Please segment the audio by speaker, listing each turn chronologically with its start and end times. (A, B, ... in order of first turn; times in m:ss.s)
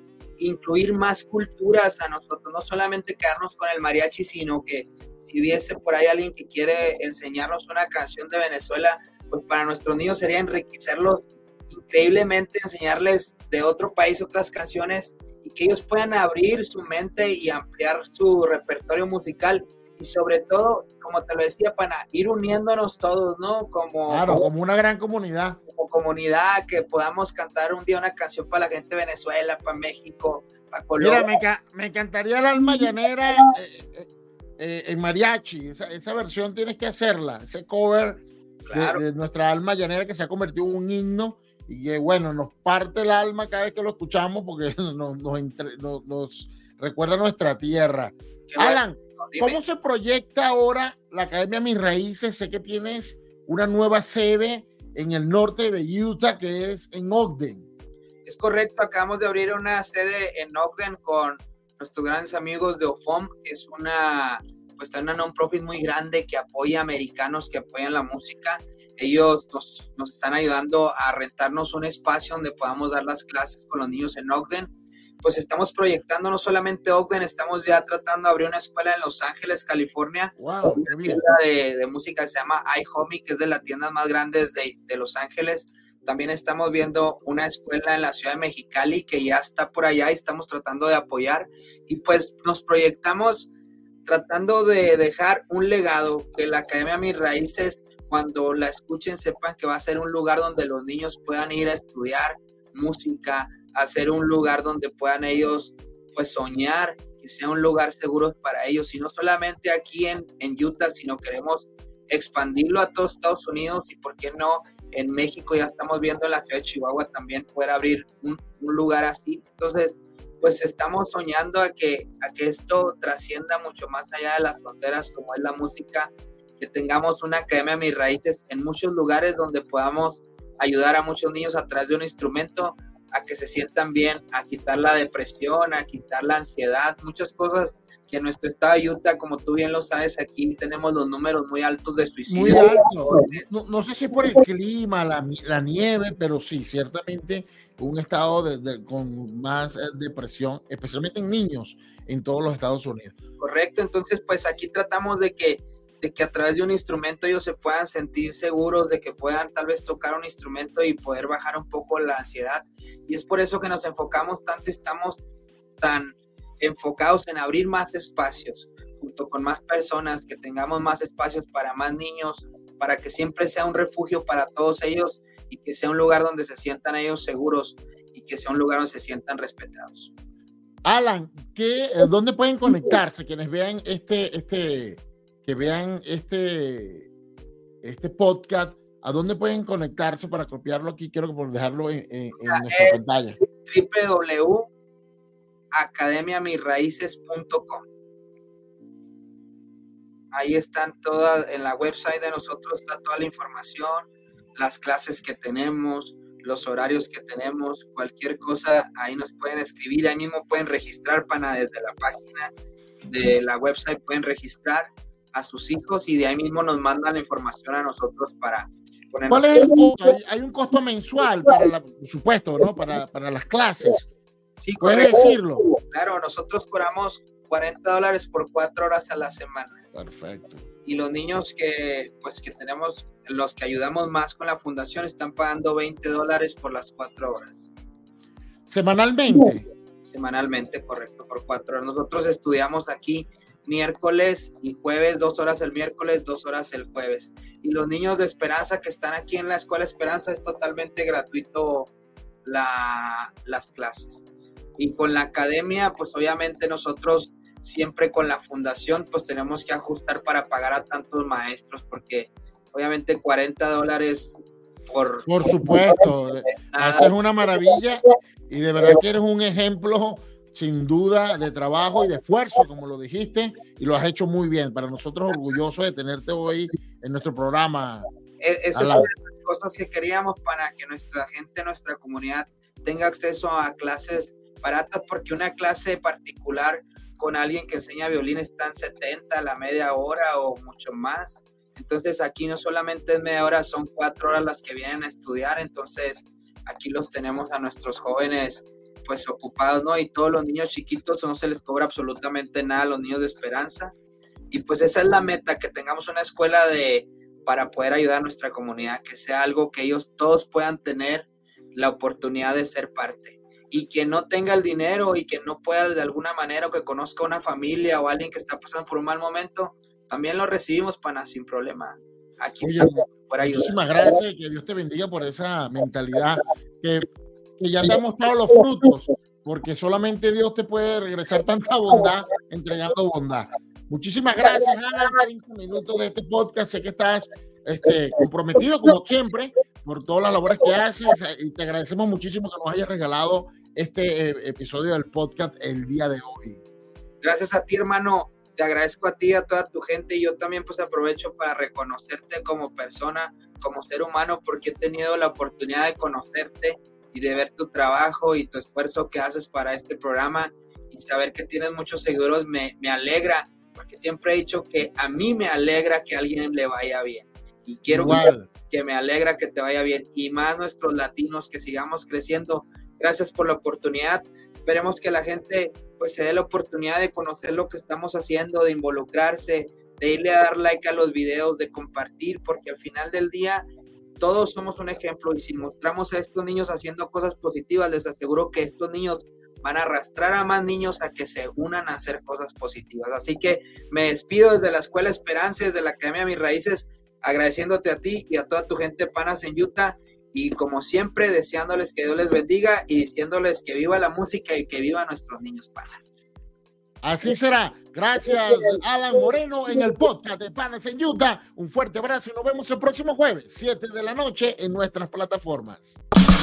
0:00.4-0:24.5 A
0:24.1-0:25.6 B
0:25.7-0:31.3 A
0:31.0-0:57.7 B
0:38.7-0:39.0 A
0:48.5-0:49.6 A
0:58.2-1:14.7 A
1:15.2-1:33.5 A
1:20.4-1:21.3 B
1:34.1-2:23.4 A
2:22.3-2:33.2 B
2:33.4-2:45.2 A
2:45.8-3:00.1 A
3:00.8-3:07.1 B
3:07.8-3:13.4 B
3:12.4-3:14.7 A
3:15.7-3:17.8 A
3:20.3-3:24.1 A
3:24.6-3:32.5 A
3:33.1-3:39.7 A
3:39.3-3:44.1 B
3:44.6-3:45.3 A
3:44.8-3:45.6 B
3:45.9-3:49.8 A
3:49.9-3:50.6 B
3:50.8-3:57.7 A
3:58.7-3:59.6 B
4:00.0-4:11.9 A
4:12.4-4:14.2 A
4:14.8-4:25.3 A
4:25.3-4:38.1 B
4:26.5-4:27.1 A
4:38.4-5:03.9 A
4:38.7-4:39.1 B
5:04.5-5:23.8 A
5:22.6-5:27.1 B
5:27.6-5:46.6 B
5:47.2-6:23.7 A
6:07.9-6:08.5 B
6:24.2-6:46.0 A
6:47.0-6:56.0 B